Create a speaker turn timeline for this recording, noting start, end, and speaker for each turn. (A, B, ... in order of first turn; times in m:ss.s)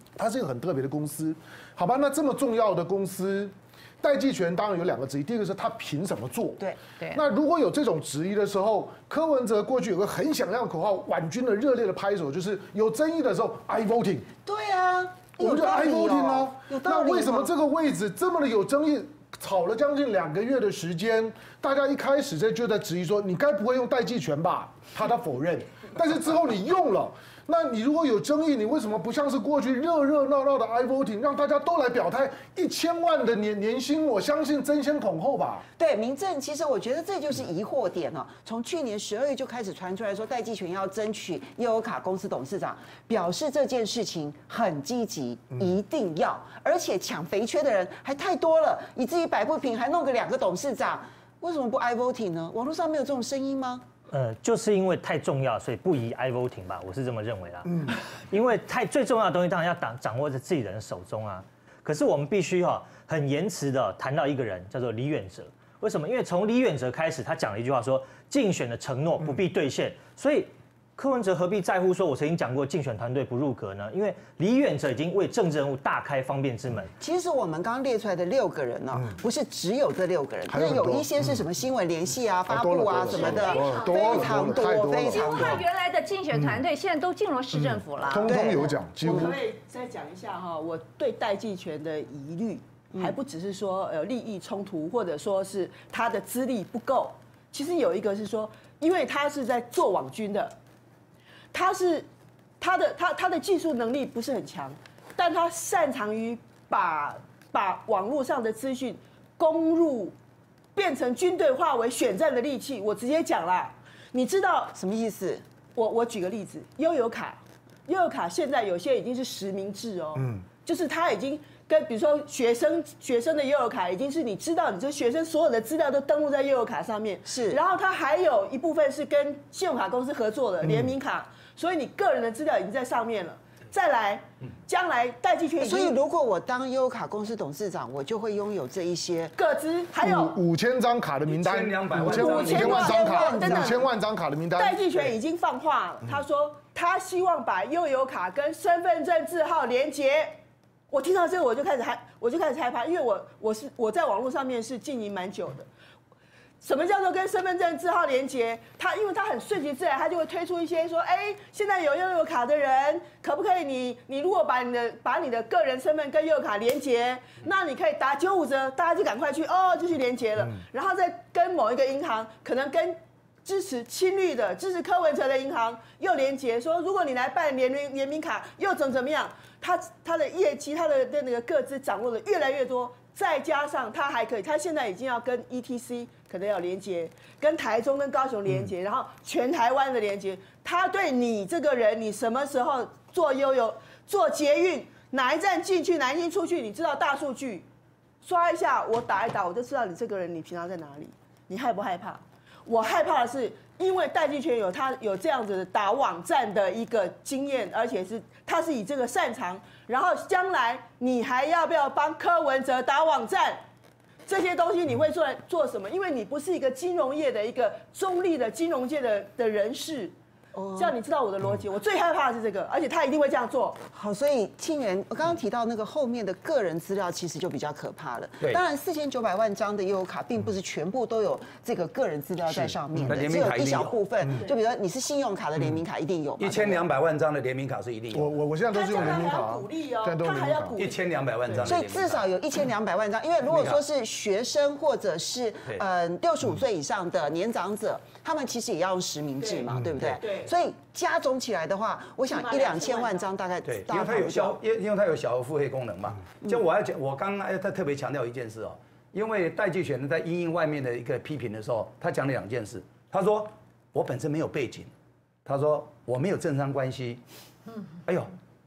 0:00.2-0:14.3 A
0:14.4-0:17.5 B
0:15.4-0:35.6 A
0:35.8-0:53.8 B
0:54.1-1:16.9 C
1:17.0-1:25.6 B
1:20.5-1:21.4 A
1:22.5-1:25.6 A
1:23.2-1:24.6 D
1:25.1-1:28.3 D
1:26.3-1:26.6 A
1:27.5-1:29.3 A
1:28.2-1:29.3 B
1:29.0-1:40.6 E
1:41.5-1:42.1 E
1:42.6-1:50.2 E
1:50.7-1:54.7 E
1:54.7-1:55.4 B
1:55.7-2:16.0 E
2:07.2-2:07.6 B
2:15.6-2:19.4 B
2:19.4-2:20.4 E
2:20.0-2:24.7 A
2:21.2-2:22.7 F
2:21.9-2:23.9 E
2:22.4-2:23.8 B
2:24.5-2:30.4 E
2:30.9-2:35.7 E
2:36.6-3:17.7 E
3:18.2-3:33.6 E
3:34.2-3:40.1 E
3:40.5-3:41.0 B
3:40.8-3:43.8 E
3:43.9-3:56.8 B
3:52.4-3:53.1 A
3:53.0-3:53.9 F
3:56.4-3:58.4 F
3:58.1-4:00.8 A
3:58.7-4:01.7 E
4:00.8-4:02.2 F
4:01.6-4:14.6 B
4:03.5-4:03.8 F
4:09.4-4:10.5 E
4:12.3-4:13.3 E
4:13.6-4:24.9 F
4:25.4-4:27.2 F